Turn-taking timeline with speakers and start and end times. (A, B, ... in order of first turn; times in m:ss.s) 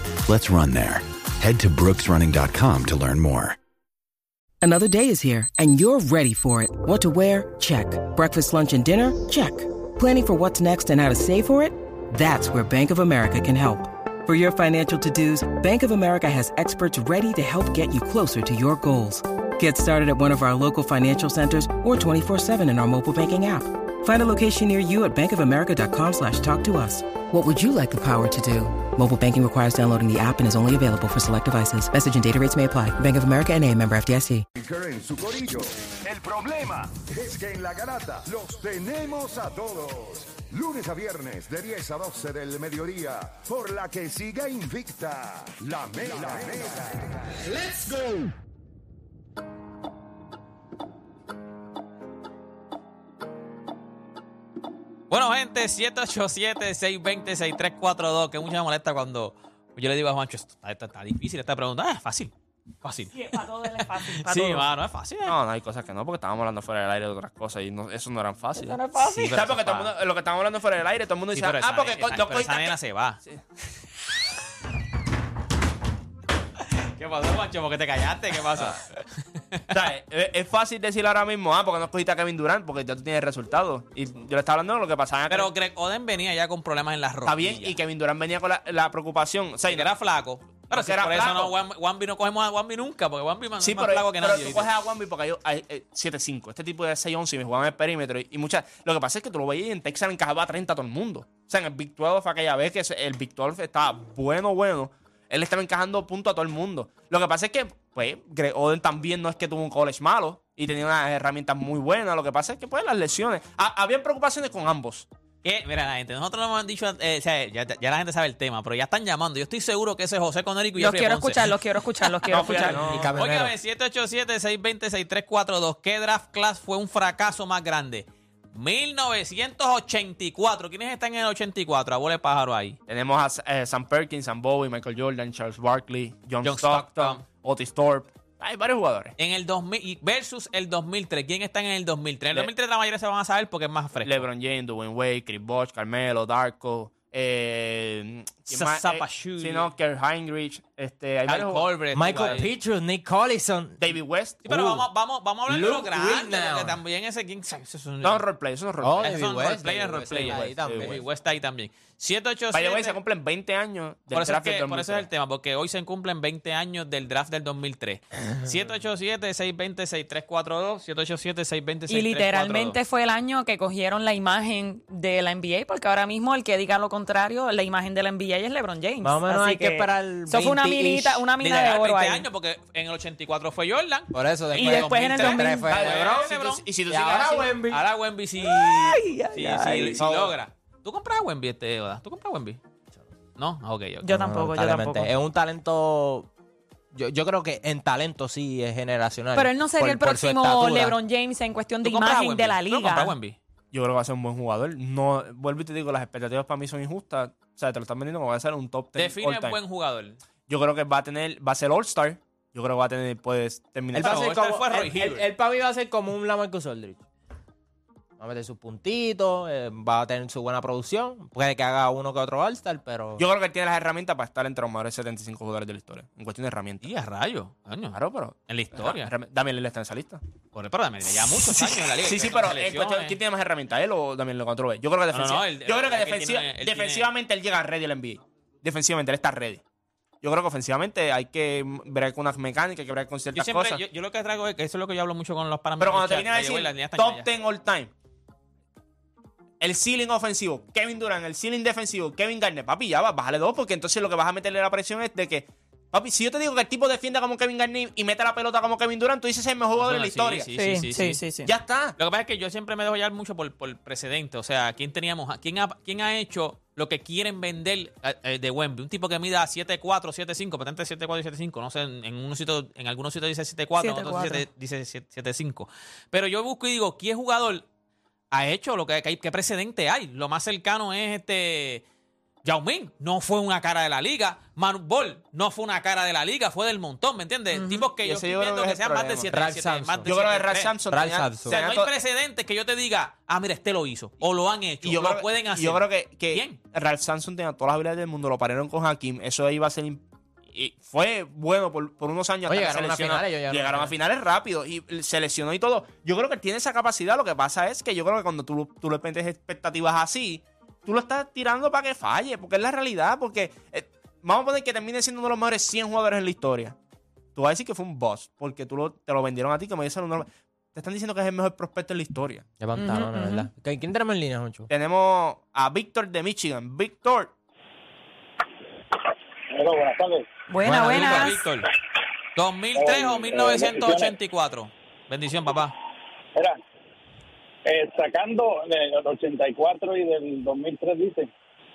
0:00.2-0:03.6 A
0:04.6-0:34.4 B
0:34.5-0:48.2 C
0:55.1-1:02.3 D
1:02.8-1:05.4 D
1:03.1-1:04.6 E
1:05.2-1:12.7 F
1:08.6-1:09.4 E
1:09.0-1:09.9 D
1:11.3-1:13.2 D
1:16.8-1:19.0 D
1:19.7-1:25.5 F
1:25.3-1:27.8 D
1:27.2-1:29.9 F
1:29.7-1:34.7 D
1:30.7-1:31.6 F
1:33.6-1:55.1 F
1:55.4-2:12.8 D
2:00.8-2:02.8 E
2:02.3-2:03.1 F
2:02.7-2:03.6 G
2:12.9-2:19.1 F
2:16.4-2:17.2 D
2:19.2-2:24.2 D
2:24.0-2:31.7 F
2:28.5-2:29.7 D
2:31.2-2:32.5 D
2:31.9-2:33.9 G
2:33.8-2:34.5 F
2:34.4-2:34.8 G
2:34.4-2:38.2 D
2:35.5-2:36.8 G
2:38.0-2:39.2 F
2:38.8-2:41.0 G
2:39.0-2:43.0 D
2:40.1-2:41.0 F
2:42.5-2:45.1 F
2:44.1-2:52.8 D
2:51.9-3:02.2 E
2:59.0-3:01.2 G
3:01.4-3:06.6 D
3:04.1-3:06.3 G
3:04.5-3:05.6 E
3:05.7-3:07.6 F
3:06.9-3:07.8 G
3:07.7-3:12.6 D
3:08.5-3:10.0 E
3:10.0-3:10.3 F
3:13.4-3:14.1 D
3:14.0-3:15.1 E
3:14.1-3:16.3 G
3:16.9-3:21.0 G
3:19.3-3:23.1 E
3:21.8-3:23.4 D
3:23.7-3:29.6 F
3:29.0-3:30.2 D
3:30.5-3:34.3 F
3:33.9-3:37.0 G
3:34.0-3:35.2 D
3:38.2-3:43.2 G
3:43.2-3:46.9 F
3:46.8-3:49.1 D
3:47.9-3:50.2 F
3:50.5-3:53.2 D
3:51.9-3:59.6 F
3:55.1-3:57.1 D
4:00.2-4:03.8 F
4:03.3-4:07.2 D
4:05.8-4:07.9 F
4:09.6-4:20.5 F
4:19.7-4:21.2 D
4:20.5-4:21.5 E
4:21.4-4:21.9 F
4:22.0-4:37.6 D
4:33.8-4:34.4 E
4:38.3-4:41.8 D
4:42.4-4:50.8 D
4:47.5-4:47.8 E
4:48.0-4:49.3 F
4:49.3-4:50.2 G
4:50.0-4:51.9 F
4:50.9-4:51.6 G
4:51.4-4:56.6 D
4:54.8-5:16.8 F
5:02.5-5:03.9 G
5:17.3-5:22.5 F
5:22.6-5:24.7 G
5:22.8-5:23.5 E
5:24.7-5:27.3 F
5:29.5-5:30.3 H
5:30.5-5:31.4 E
5:30.6-5:31.7 D
5:32.4-5:35.7 D
5:32.7-5:34.2 H
5:37.6-5:41.3 H